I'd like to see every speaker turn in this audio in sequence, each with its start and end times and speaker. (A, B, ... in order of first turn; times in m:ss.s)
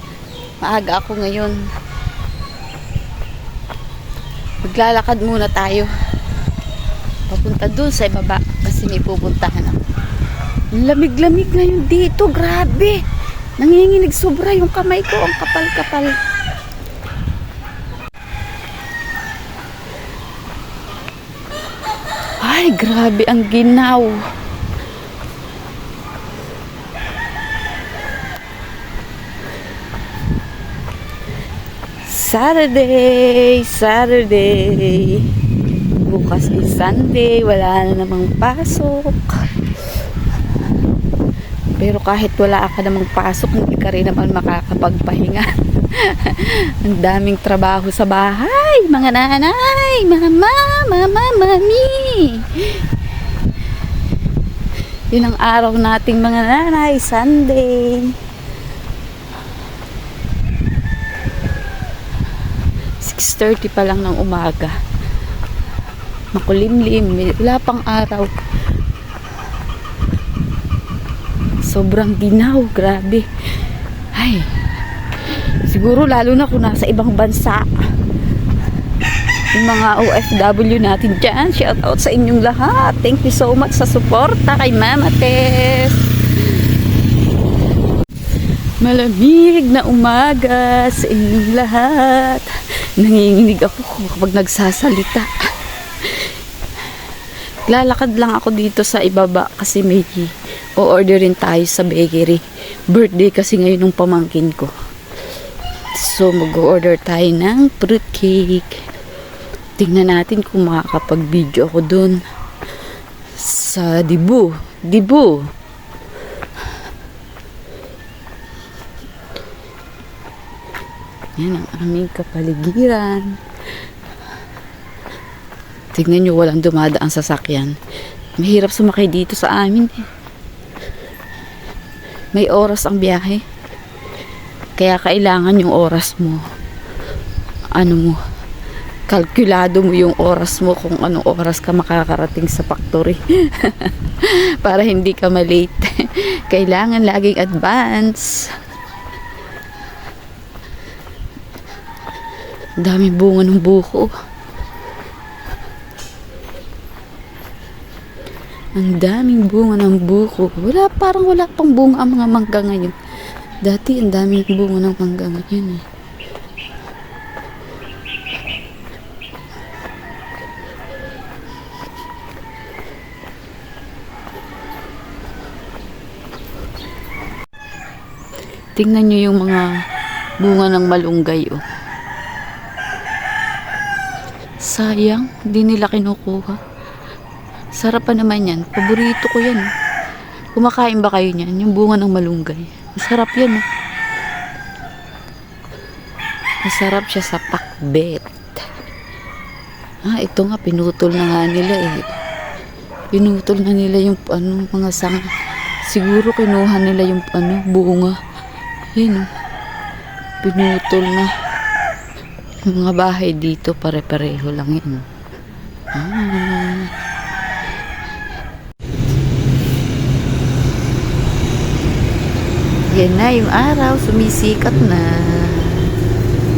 0:00.6-0:01.6 A
0:04.6-0:05.9 A
0:07.3-0:09.8 A
0:10.7-0:13.0 A
0:13.6-0:16.2 A
0:22.4-0:24.2 A
0:32.0-0:35.3 A
0:35.9-0:39.4 A
0:41.8-0:52.9 A
0:55.1-0:58.2 A
1:03.0-1:04.8 A
1:06.3-1:08.4 A
1:11.6-1:13.2 A
1:14.1-1:14.5 A
1:15.6-1:17.7 A
1:19.5-1:26.6 A
1:28.8-1:35.3 A
1:36.0-1:36.3 A
1:37.7-1:44.7 A
1:45.9-1:48.8 A
1:49.8-1:52.2 A
1:53.3-1:55.5 A
2:01.4-2:03.4 A
2:05.9-2:07.8 A
2:08.4-2:10.0 A
2:12.3-2:13.4 A
2:14.8-2:16.4 A
2:17.7-2:18.2 A
2:19.1-2:28.5 A
2:32.8-2:34.1 A
2:38.7-2:42.9 A
2:43.6-2:45.8 A
2:58.7-2:59.7 A
3:00.4-3:01.6 A
3:04.6-3:06.6 A
3:07.8-3:09.7 A
3:10.5-3:13.6 A
3:16.6-3:18.6 A
3:20.0-3:22.1 A
3:23.1-3:25.3 A
3:25.8-3:28.2 A
3:28.9-3:29.3 A
3:30.4-3:31.3 A
3:32.6-3:35.0 A
3:35.9-3:36.9 A
3:42.9-3:45.9 A